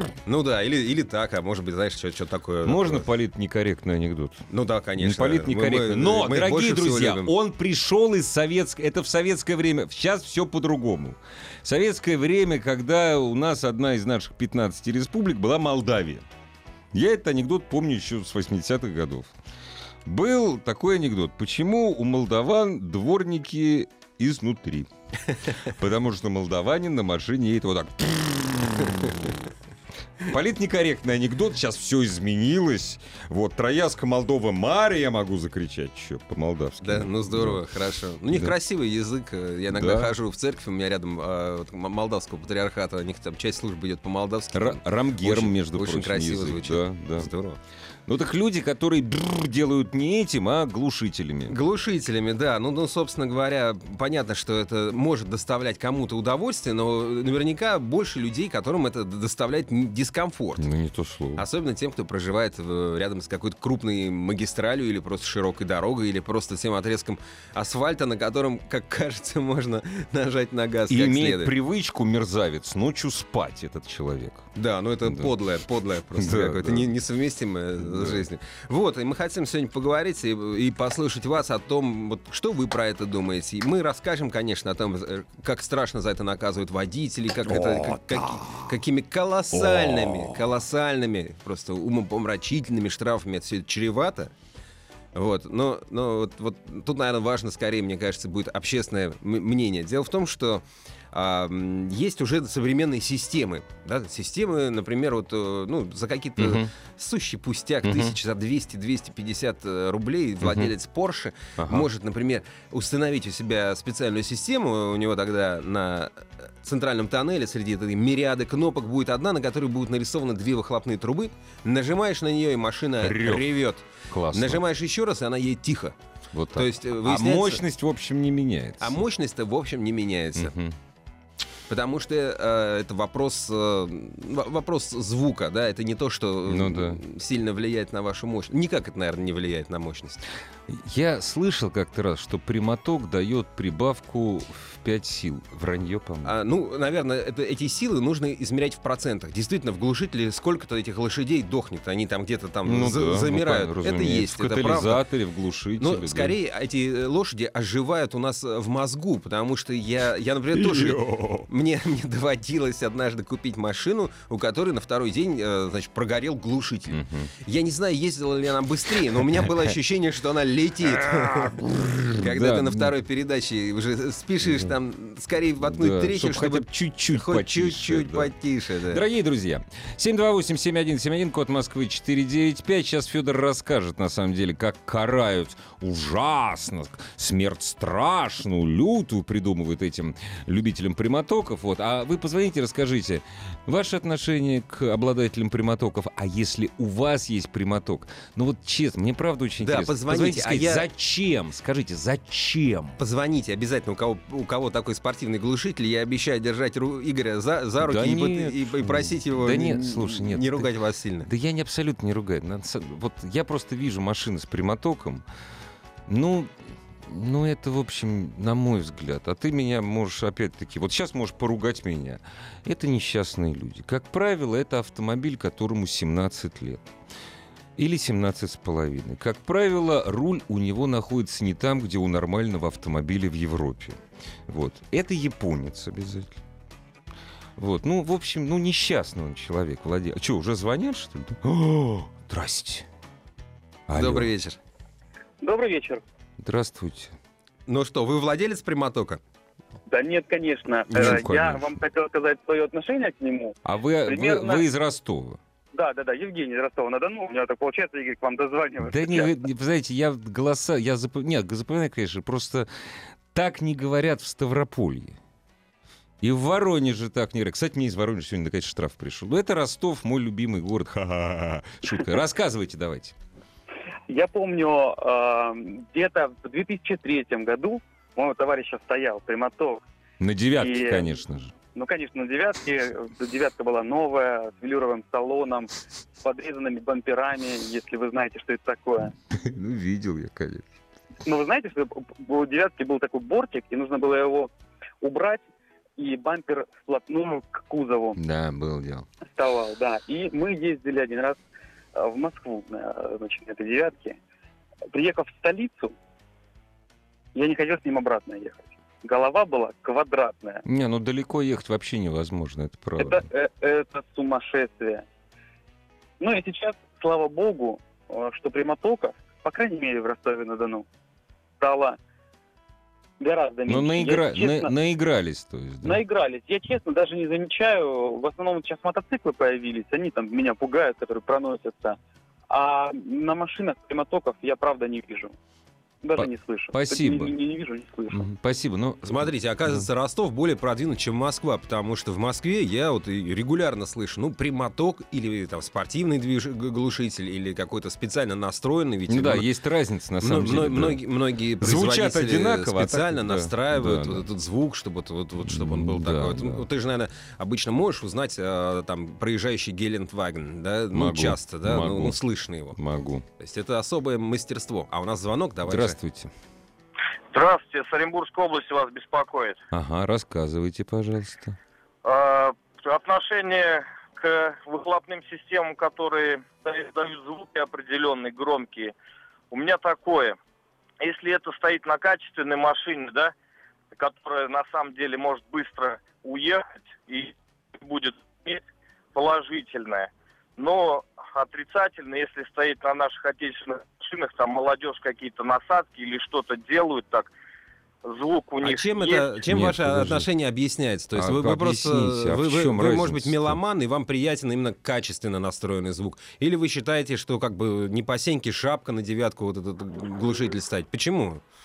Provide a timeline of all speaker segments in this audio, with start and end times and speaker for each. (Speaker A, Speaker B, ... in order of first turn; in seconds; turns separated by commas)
Speaker A: 0.2-3.0, Speaker B: 2.6-4.5, Speaker A: 4.5-7.3, Speaker B: 5.0-16.2, Speaker B: 16.9-19.3, Speaker B: 20.1-24.9, Speaker B: 25.6-29.3, Speaker B: 30.2-37.6, Speaker A: 36.8-47.6, Speaker B: 38.3-38.5, Speaker B: 39.7-40.1, Speaker B: 44.5-47.3, Speaker B: 48.1-51.6, Speaker A: 51.5-60.7, Speaker B: 60.6-61.4, Speaker A: 61.4-71.5, Speaker B: 70.9-74.5, Speaker A: 74.5-94.3, Speaker B: 75.0-75.3, Speaker B: 76.1-76.9, Speaker B: 77.8-78.2, Speaker B: 87.9-88.4, Speaker B: 89.5-90.2, Speaker A: 95.1-125.9, Speaker B: 106.4-106.7, Speaker B: 107.8-108.2, Speaker B: 110.4-110.7, Speaker B: 111.6-111.9, Speaker B: 123.0-123.5, Speaker B: 124.1-124.6, Speaker B: 126.3-129.0, Speaker A: 126.5-127.6, Speaker A: 128.8-130.5, Speaker B: 130.3-130.7, Speaker A: 131.7-140.2, Speaker B: 136.4-137.0, Speaker B: 140.7-146.3, Speaker A: 146.2-155.0, Speaker B: 152.6-156.3, Speaker A: 155.8-171.6, Speaker B: 160.5-161.5, Speaker B: 166.9-167.3, Speaker B: 171.4-172.9, Speaker A: 172.2-179.0, Speaker B: 174.4-174.7, Speaker B: 175.6-178.3, Speaker B: 178.9-203.0, Speaker A: 199.6-200.8, Speaker A: 203.0-211.3, Speaker B: 207.8-210.7, Speaker B: 211.2-215.2, Speaker B: 216.1-216.5, Speaker B: 217.1-226.8, Speaker B: 227.8-234.0, Speaker B: 234.5-236.4, Speaker B: 237.6-242.8, Speaker B: 243.9-244.3, Speaker A: 243.9-244.6, Speaker C: 245.4-246.0, Speaker B: 246.4-247.1, Speaker A: 247.7-249.2, Speaker C: 249.9-254.7, Speaker B: 250.9-251.8, Speaker B: 253.6-255.4, Speaker C: 255.7-259.4, Speaker B: 258.8-262.7, Speaker B: 263.3-265.2, Speaker B: 266.2-273.1, Speaker C: 274.1-279.8, Speaker B: 280.2-281.5, Speaker C: 280.6-281.1, Speaker C: 281.7-289.1, Speaker B: 289.3-290.7, Speaker C: 291.2-295.4, Speaker C: 296.0-298.2, Speaker B: 298.1-299.1, Speaker C: 299.3-301.4, Speaker C: 301.9-304.2, Speaker C: 304.9-305.9, Speaker C: 307.3-310.6, Speaker B: 310.6-313.2, Speaker C: 313.0-315.0, Speaker C: 316.2-320.9, Speaker C: 321.6-322.0, Speaker C: 323.2-324.7, Speaker B: 323.7-326.0, Speaker C: 325.8-332.0, Speaker C: 332.5-335.3, Speaker C: 336.0-338.2, Speaker B: 336.1-337.3, Speaker B: 338.1-339.9, Speaker A: 339.0-349.5, Speaker B: 349.1-351.1, Speaker A: 350.2-362.8, Speaker B: 351.6-354.3, Speaker B: 355.4-356.7, Speaker B: 360.9-363.2, Speaker A: 363.4-366.0, Speaker B: 365.6-366.3, Speaker D: 367.3-369.6, Speaker B: 369.7-371.6, Speaker D: 372.0-378.9, Speaker D: 379.5-380.4, Speaker D: 381.0-383.3, Speaker D: 383.9-388.6, Speaker D: 389.1-397.3, Speaker D: 398.0-399.4, Speaker A: 398.6-411.4, Speaker B: 399.5-400.3, Speaker B: 401.1-403.6